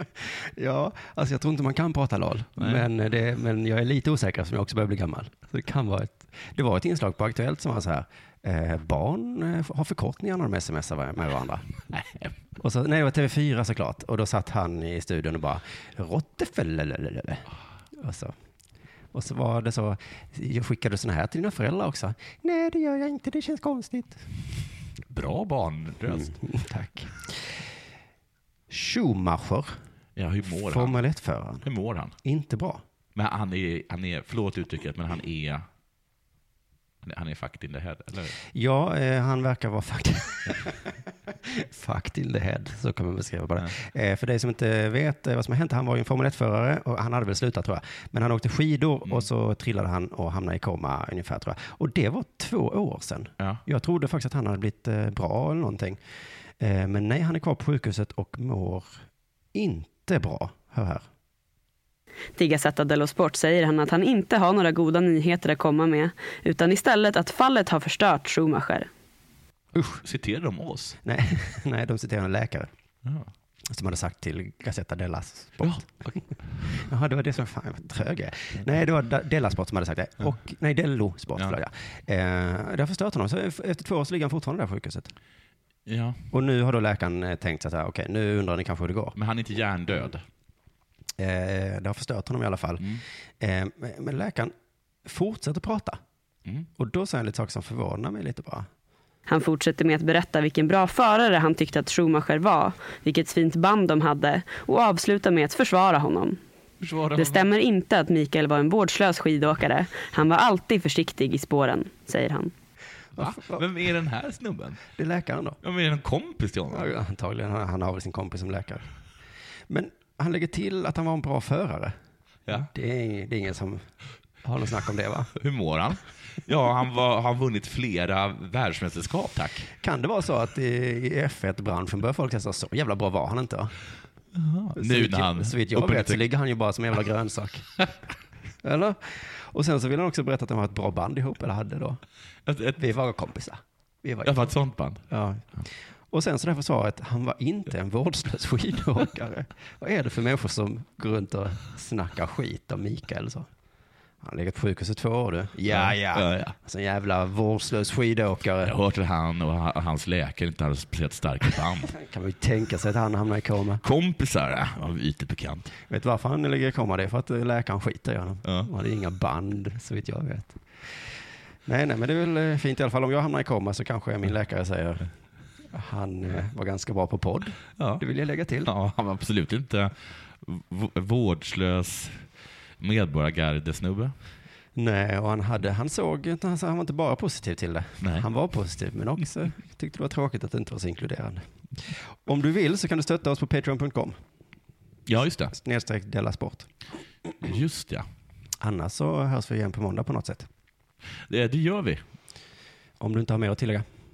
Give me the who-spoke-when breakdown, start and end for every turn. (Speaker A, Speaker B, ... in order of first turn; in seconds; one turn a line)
Speaker A: 0.2-11.7
Speaker B: 2.6-2.9
Speaker B: 11.9-12.3
Speaker A: 12.6-18.4
Speaker A: 19.1-24.2
Speaker B: 25.1-26.4
Speaker A: 26.1-27.7
Speaker A: 28.7-29.8
Speaker B: 30.2-31.0
Speaker A: 30.5-31.7
Speaker B: 31.6-32.1
Speaker A: 32.2-32.8
Speaker B: 33.1-35.6
Speaker B: 37.0-38.4
Speaker A: 38.5-56.0
Speaker A: 56.6-59.0
Speaker A: 59.5-61.1
Speaker C: 62.4-68.9
Speaker A: 69.8-70.0
Speaker B: 70.0-71.0
Speaker A: 71.0-72.7
Speaker A: 73.7-75.9
Speaker B: 75.6-76.2
Speaker A: 76.7-85.1
Speaker B: 85.9-86.2
Speaker A: 86.3-89.2
Speaker B: 89.2-90.2
Speaker A: 91.2-94.5
Speaker A: 95.0-96.0
Speaker A: 96.8-98.7
Speaker C: 99.3-106.4
Speaker B: 106.8-107.5
Speaker C: 107.1-112.5
Speaker A: 113.2-113.6
Speaker B: 113.2-114.8
Speaker A: 115.0-115.6
Speaker B: 115.6-116.9
Speaker A: 116.7-118.9
Speaker A: 119.7-122.0
Speaker A: 122.5-123.8
Speaker A: 124.4-125.3
Speaker B: 125.4-129.7
Speaker A: 129.8-133.7
Speaker B: 134.3-136.2
Speaker A: 134.8-137.7
Speaker A: 138.6-142.0
Speaker B: 142.5-142.8
Speaker A: 142.7-144.6
Speaker B: 144.2-145.0
Speaker A: 145.1-145.5
Speaker A: 146.1-153.5
Speaker A: 154.2-158.7
Speaker B: 155.7-156.6
Speaker B: 158.6-161.9
Speaker A: 161.9-163.8
Speaker B: 163.8-165.7
Speaker A: 165.9-170.6
Speaker A: 171.7-175.1
Speaker A: 175.7-178.7
Speaker B: 177.8-178.0
Speaker B: 178.6-182.2
Speaker B: 182.8-184.1
Speaker A: 184.8-194.2
Speaker B: 188.0-188.3
Speaker B: 195.1-195.5
Speaker A: 195.5-196.7
Speaker B: 197.4-198.1
Speaker A: 198.6-200.5
Speaker B: 201.3-202.1
Speaker A: 203.0-203.8